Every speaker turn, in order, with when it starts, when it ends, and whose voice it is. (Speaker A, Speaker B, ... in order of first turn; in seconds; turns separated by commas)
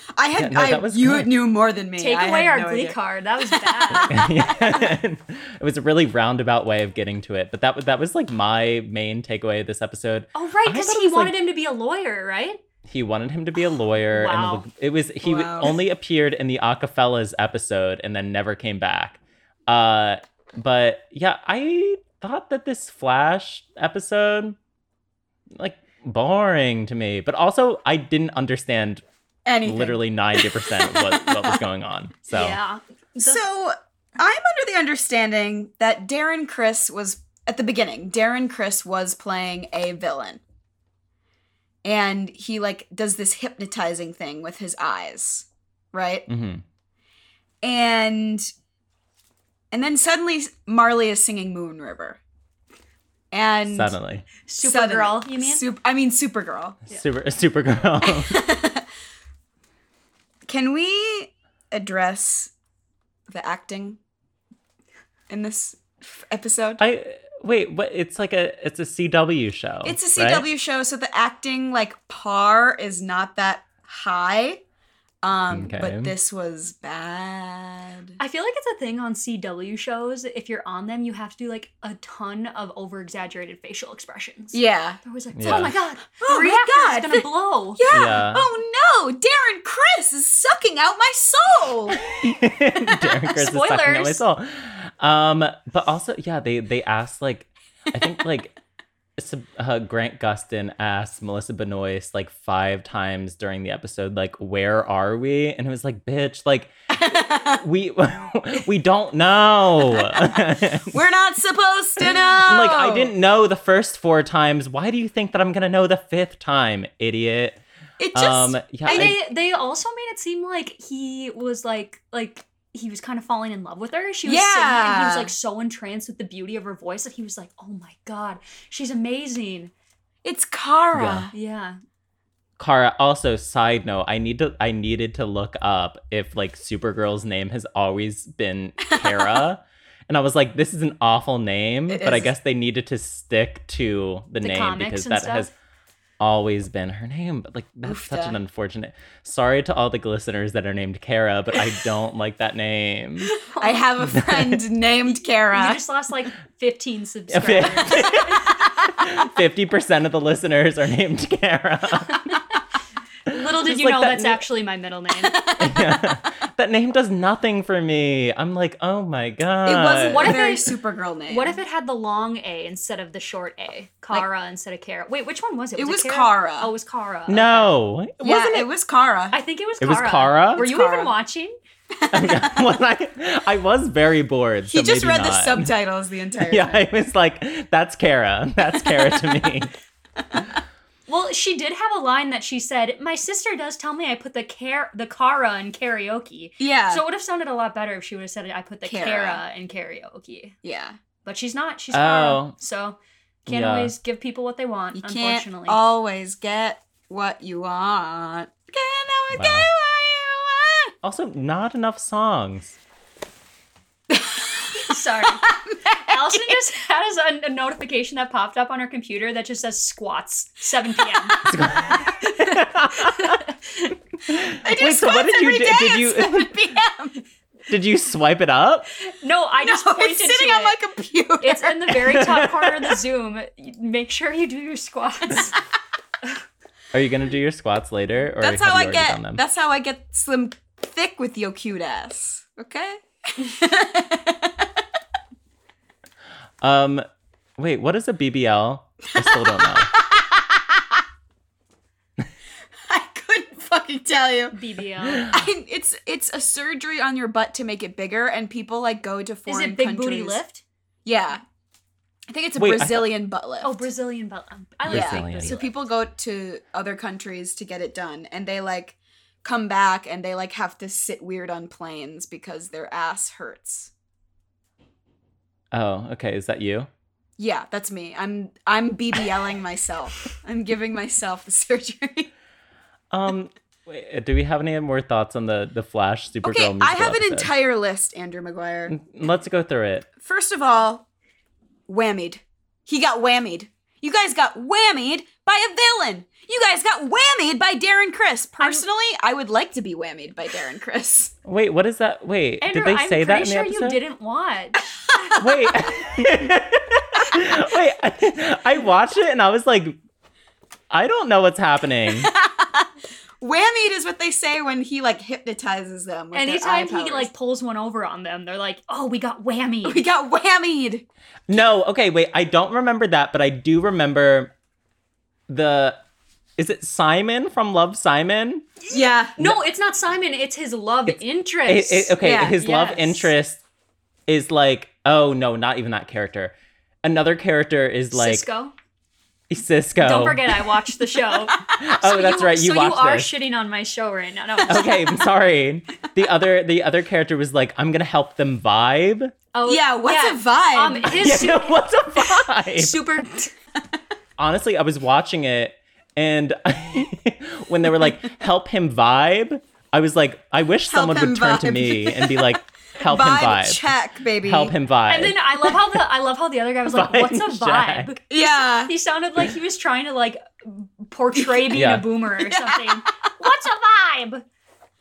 Speaker A: 0.1-4.8, Speaker B: 0.4-1.3, Speaker C: 2.0-4.2, Speaker B: 4.1-11.4, Speaker C: 10.3-12.6, Speaker B: 12.8-24.6, Speaker C: 14.1-14.7, Speaker A: 15.2-15.8, Speaker B: 25.5-29.0, Speaker A: 29.5-31.4, Speaker B: 29.6-32.6, Speaker C: 32.3-33.4, Speaker A: 33.2-40.4, Speaker A: 41.8-46.3, Speaker B: 46.3-46.6, Speaker A: 47.6-48.5, Speaker A: 49.7-52.2, Speaker A: 53.3-54.0, Speaker B: 53.7-54.3, Speaker C: 54.5-55.6, Speaker A: 54.6-56.8, Speaker B: 56.9-58.4, Speaker A: 58.1-58.8, Speaker A: 60.5-62.5, Speaker A: 63.3-64.0, Speaker A: 65.3-66.8, Speaker B: 66.8-70.5, Speaker A: 69.8-74.6, Speaker A: 75.2-78.2, Speaker B: 75.5-76.1, Speaker C: 78.2-87.8, Speaker A: 84.5-87.2, Speaker B: 85.3-85.7, Speaker A: 87.8-92.0, Speaker B: 87.9-88.4, Speaker B: 92.0-98.5, Speaker C: 93.4-94.2, Speaker B: 99.2-111.0, Speaker A: 106.9-107.6, Speaker A: 109.9-113.1, Speaker B: 112.1-117.6, Speaker A: 118.0-119.1, Speaker B: 118.1-119.2, Speaker C: 118.9-129.7, Speaker A: 124.2-125.3, Speaker A: 130.2-131.3, Speaker B: 130.9-131.3, Speaker C: 131.3-131.8, Speaker B: 132.6-145.5, Speaker A: 138.9-139.3, Speaker A: 141.9-142.3, Speaker C: 144.4-145.5, Speaker B: 146.2-153.3, Speaker A: 147.8-148.4, Speaker C: 153.3-153.9, Speaker A: 153.6-155.8, Speaker B: 154.1-154.6, Speaker C: 155.5-158.6, Speaker B: 157.3-162.3, Speaker C: 163.3-165.4, Speaker B: 163.3-164.4, Speaker A: 165.3-166.1, Speaker B: 165.6-170.4, Speaker A: 169.7-171.6, Speaker C: 170.1-170.7, Speaker C: 171.3-177.7, Speaker A: 175.8-176.7, Speaker B: 177.3-178.7, Speaker A: 178.2-179.4, Speaker C: 179.3-181.6, Speaker B: 179.8-180.7, Speaker A: 180.6-181.1, Speaker A: 182.0-182.6, Speaker B: 182.1-185.7, Speaker A: 184.7-186.9, Speaker B: 186.5-189.7, Speaker A: 189.0-189.3, Speaker A: 190.2-190.5, Speaker C: 191.1-200.6, Speaker A: 196.6-197.0, Speaker A: 198.9-199.4, Speaker A: 200.6-201.0, Speaker C: 201.2-205.8, Speaker B: 201.9-202.6, Speaker B: 203.5-203.9, Speaker A: 204.9-210.9, Speaker B: 209.3-209.7, Speaker B: 211.0-212.8, Speaker A: 214.1-216.6, Speaker C: 214.8-215.4, Speaker C: 216.0-221.4, Speaker B: 221.4-223.4, Speaker C: 222.5-223.9, Speaker B: 224.3-226.6, Speaker A: 224.6-227.2, Speaker B: 227.7-228.9, Speaker C: 229.1-230.8, Speaker A: 229.6-232.0, Speaker C: 231.4-235.6, Speaker B: 232.1-232.5, Speaker B: 236.9-239.4, Speaker A: 238.4-244.7, Speaker B: 246.6-247.1, Speaker B: 247.6-249.9, Speaker A: 249.2-250.8, Speaker A: 252.9-254.6, Speaker C: 254.5-255.3, Speaker A: 255.2-260.4, Speaker C: 259.5-260.6, Speaker A: 261.1-261.4, Speaker A: 262.3-263.9, Speaker B: 262.6-263.1, Speaker C: 263.6-265.7, Speaker B: 264.9-265.6, Speaker A: 264.9-273.9, Speaker B: 275.7-276.9, Speaker A: 277.4-282.3, Speaker B: 283.1-287.5, Speaker A: 286.4-289.0, Speaker B: 288.9-290.1, Speaker A: 290.2-291.1, Speaker A: 291.9-301.4, Speaker C: 298.6-298.9, Speaker B: 301.4-304.0, Speaker C: 302.6-305.3, Speaker A: 305.1-305.4, Speaker B: 305.4-310.0, Speaker B: 310.9-312.3, Speaker A: 312.2-312.9, Speaker A: 313.4-317.3, Speaker C: 316.3-320.0, Speaker A: 319.8-321.1, Speaker B: 321.5-324.5, Speaker B: 325.5-326.0, Speaker B: 326.6-328.7, Speaker A: 328.9-329.5, Speaker C: 329.4-333.3, Speaker B: 331.7-333.6, Speaker A: 332.2-332.6, Speaker B: 334.3-338.5, Speaker C: 338.1-338.7, Speaker B: 339.5-340.6, Speaker C: 340.0-345.0, Speaker B: 341.8-343.3, Speaker B: 344.7-349.3, Speaker C: 349.5-353.5, Speaker A: 349.7-351.3, Speaker B: 351.1-353.0, Speaker B: 354.4-363.8, Speaker A: 360.9-364.8, Speaker B: 364.4-365.4, Speaker C: 365.1-374.4, Speaker B: 366.9-368.1, Speaker A: 368.3-368.9, Speaker A: 371.4-371.8, Speaker B: 371.7-372.1, Speaker A: 372.5-373.1